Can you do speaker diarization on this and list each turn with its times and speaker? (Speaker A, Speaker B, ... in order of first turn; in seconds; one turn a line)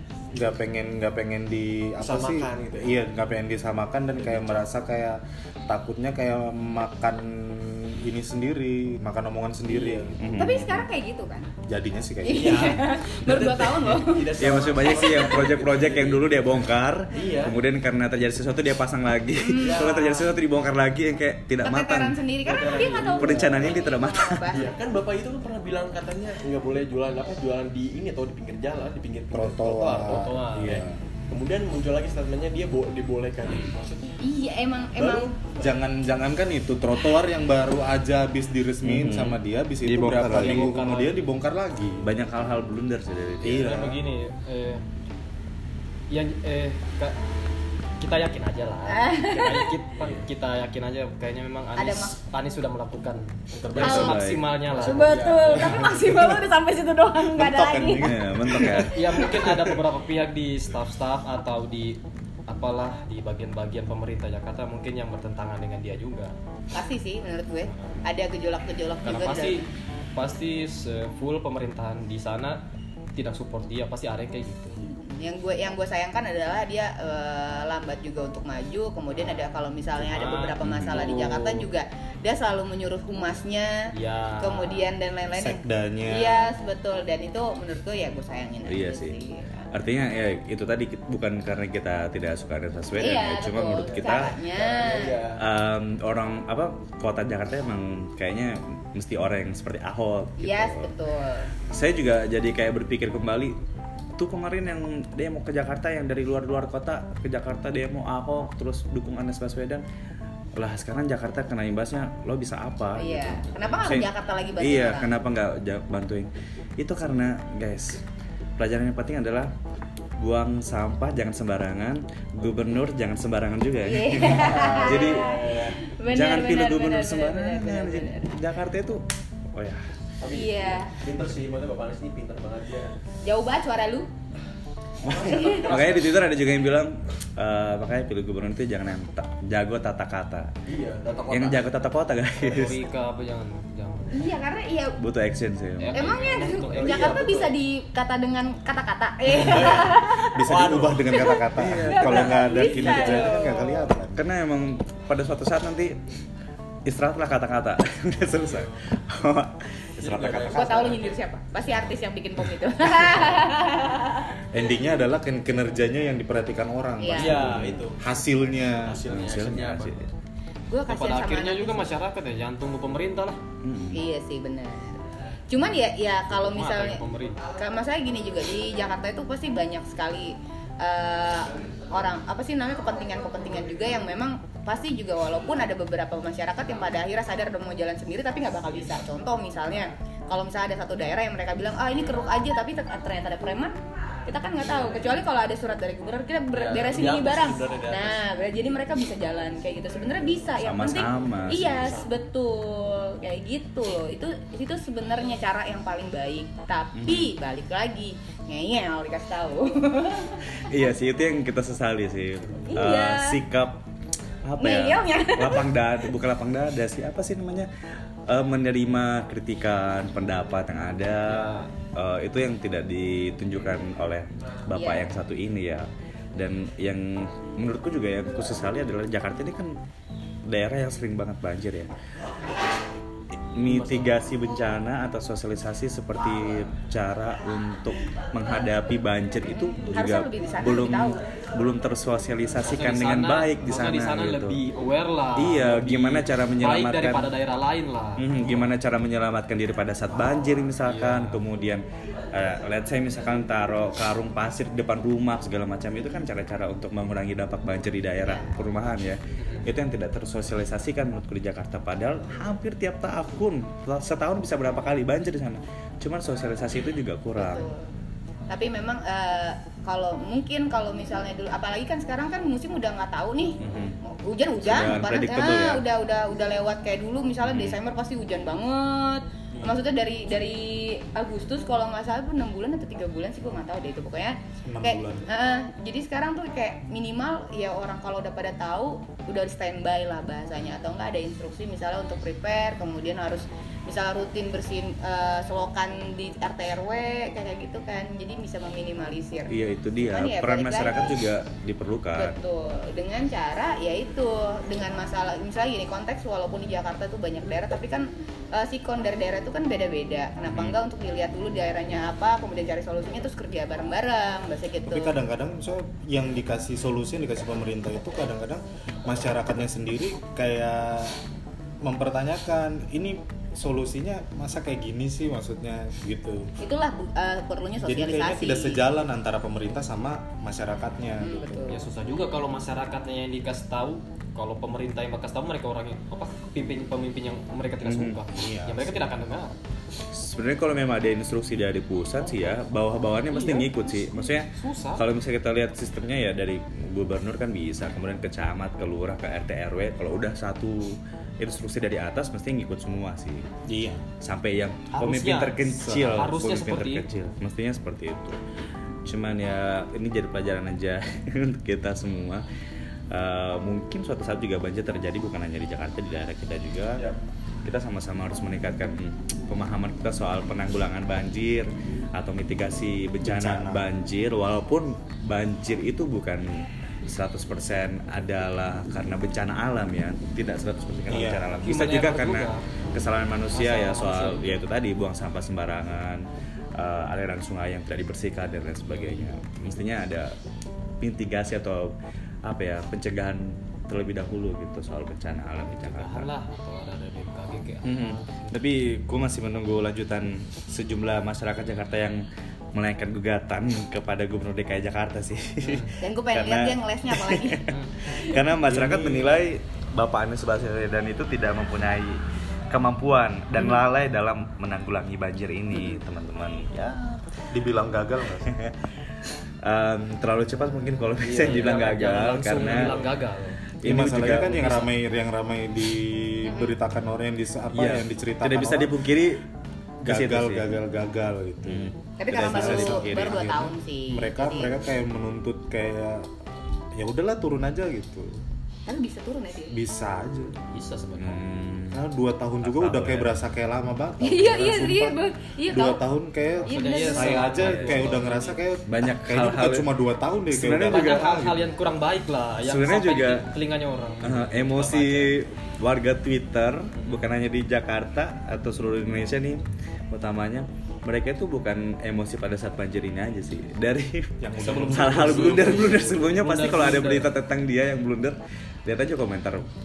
Speaker A: 0.3-10.5
Speaker B: 2.0-3.0
Speaker B: 4.2-4.7
Speaker B: 9.7-10.2
Speaker C: 10.2-10.6
Speaker D: 10.4-11.5
Speaker A: 11.7-12.7
Speaker D: 12.2-14.3
Speaker B: 12.3-17.6
Speaker C: 14.4-24.6
Speaker D: 19.4-19.9
Speaker B: 19.6-20.3
Speaker D: 21.6-24.7
Speaker B: 22.4-23.8
Speaker B: 24.5-34.2
Speaker A: 29.3-31.0
Speaker E: 30.1-30.8
Speaker D: 34.2-35.3
Speaker B: 35.0-35.5
Speaker A: 35.6-42.1
Speaker C: 38.8-40.8
Speaker E: 40.2-41.2
Speaker C: 42.0-43.8
Speaker B: 43.4-44.0
Speaker A: 43.4-44.0
Speaker E: 43.5-44.8
Speaker E: 46.1-47.2
Speaker E: 48.0-56.0
Speaker D: 48.9-49.7
Speaker D: 51.8-52.2
Speaker B: 53.5-55.9
Speaker D: 53.8-54.2
Speaker C: 53.8-54.5
Speaker D: 54.8-59.3
Speaker A: 57.3-58.8
Speaker C: 58.0-58.9
Speaker E: 58.9-66.3
Speaker D: 66.7-69.6
Speaker E: 67.7-68.0
Speaker E: 69.0-72.6
Speaker E: 73.2-74.8
Speaker D: 74.8-83.8
Speaker E: 80.0-81.7
Speaker C: 80.6-81.1
Speaker E: 83.9-84.9
Speaker D: 84.4-89.7
Speaker A: 85.3-86.5
Speaker C: 88.7-89.2
Speaker C: 89.7-94.3
Speaker D: 93.0-95.2
Speaker B: 93.8-95.4
Speaker C: 95.4-100.9
Speaker D: 100.4-101.5
Speaker C: 101.7-103.6
Speaker C: 104.2-109.8
Speaker C: 110.6-114.1
Speaker D: 113.0-115.2
Speaker C: 114.6-118.0
Speaker C: 118.6-119.5
Speaker C: 120.2-125.3
Speaker D: 123.8-128.3
Speaker B: 124.2-125.8
Speaker C: 126.1-129.0
Speaker C: 129.5-129.8
Speaker B: 130.2-132.9
Speaker D: 130.3-130.9
Speaker D: 133.2-134.1
Speaker B: 135.0-136.3
Speaker C: 135.0-140.5
Speaker D: 135.2-135.7
Speaker B: 140.7-141.7
Speaker C: 141.3-142.8
Speaker B: 142.4-142.9
Speaker E: 142.5-144.3
Speaker D: 144.1-145.0
Speaker C: 145.0-146.2
Speaker E: 145.8-147.2
Speaker D: 145.9-150.4
Speaker B: 146.5-147.5
Speaker A: 149.4-154.3
Speaker B: 150.4-151.3
Speaker D: 151.1-153.9
Speaker C: 151.6-153.2
Speaker C: 154.2-156.0
Speaker C: 156.9-160.9
Speaker B: 158.2-158.8
Speaker B: 160.0-161.2
Speaker D: 160.5-164.3
Speaker A: 164.5-169.0
Speaker D: 167.0-167.4
Speaker B: 167.2-168.0
Speaker C: 167.4-167.8
Speaker B: 168.8-170.0
Speaker C: 169.1-170.1
Speaker D: 170.7-171.9
Speaker E: 170.9-173.4
Speaker C: 173.6-174.0
Speaker D: 173.9-210.6
Speaker E: 176.3-177.4
Speaker B: 196.5-198.2
Speaker C: 200.6-202.0
Speaker B: 201.3-202.1
Speaker C: 206.9-207.3
Speaker C: 210.7-213.8
Speaker D: 212.7-213.4
Speaker C: 214.5-217.7
Speaker D: 214.6-215.8
Speaker C: 218.3-229.7
Speaker E: 221.3-221.7
Speaker D: 224.7-225.1
Speaker C: 230.5-231.9
Speaker C: 233.6-244.6
Speaker B: 233.7-234.2
Speaker D: 239.5-241.2
Speaker E: 242.6-248.3
Speaker C: 245.4-247.3
Speaker C: 248.2-267.7
Speaker E: 250.8-251.4
Speaker D: 258.2-258.6
Speaker D: 267.4-267.9
Speaker D: 268.5-301.2
Speaker C: 273.6-274.0
Speaker C: 274.6-275.8
Speaker C: 277.4-277.8
Speaker A: 284.6-285.3
Speaker C: 299.5-302.4
Speaker D: 302.1-315.1
Speaker C: 310.5-310.8
Speaker A: 314.9-321.2
Speaker A: 321.8-326.5
Speaker D: 326.6-329.0
Speaker A: 327.8-331.7
Speaker D: 331.2-331.8
Speaker E: 331.7-339.6
Speaker C: 337.8-338.2
Speaker A: 338.4-339.0
Speaker C: 340.1-353.5
Speaker E: 342.2-342.6
Speaker E: 343.3-345.1
Speaker A: 353.7-354.0
Speaker C: 354.2-358.4
Speaker E: 354.9-357.1
Speaker C: 359.1-362.4
Speaker C: 363.1-367.1
Speaker C: 367.6-386.3
Speaker A: 373.2-373.9
Speaker A: 381.1-381.5
Speaker E: 381.6-382.6
Speaker E: 383.5-384.6
Speaker C: 386.8-390.4
Speaker E: 388.9-389.4
Speaker C: 391.0-396.3
Speaker E: 395.7-398.5
Speaker C: 397.9-402.2
Speaker C: 402.8-417.5
Speaker E: 405.6-405.9
Speaker D: 406.0-408.4
Speaker E: 407.7-408.0
Speaker A: 408.6-409.4
Speaker A: 417.5-418.6
Speaker C: 418.4-418.8
Speaker C: 419.6-423.0
Speaker E: 421.2-423.6
Speaker C: 423.8-424.8
Speaker A: 423.9-429.2
Speaker D: 426.5-426.7
Speaker C: 427.7-429.4
Speaker C: 430.0-430.8
Speaker A: 430.1-436.3
Speaker C: 431.6-433.4
Speaker D: 432.2-434.8
Speaker A: 437.0-438.4
Speaker D: 438.9-439.8
Speaker A: 439.7-440.6
Speaker E: 440.7-441.4
Speaker C: 441.2-442.0
Speaker A: 441.9-451.6
Speaker C: 442.6-443.4
Speaker D: 444.2-446.0
Speaker D: 446.7-447.6
Speaker E: 446.7-448.6
Speaker C: 447.3-448.1
Speaker C: 448.9-449.9
Speaker C: 450.5-451.5
Speaker E: 450.8-455.4
Speaker C: 452.6-453.5
Speaker C: 454.2-469.7
Speaker E: 456.9-457.3
Speaker A: 464.4-466.3
Speaker E: 464.7-467.3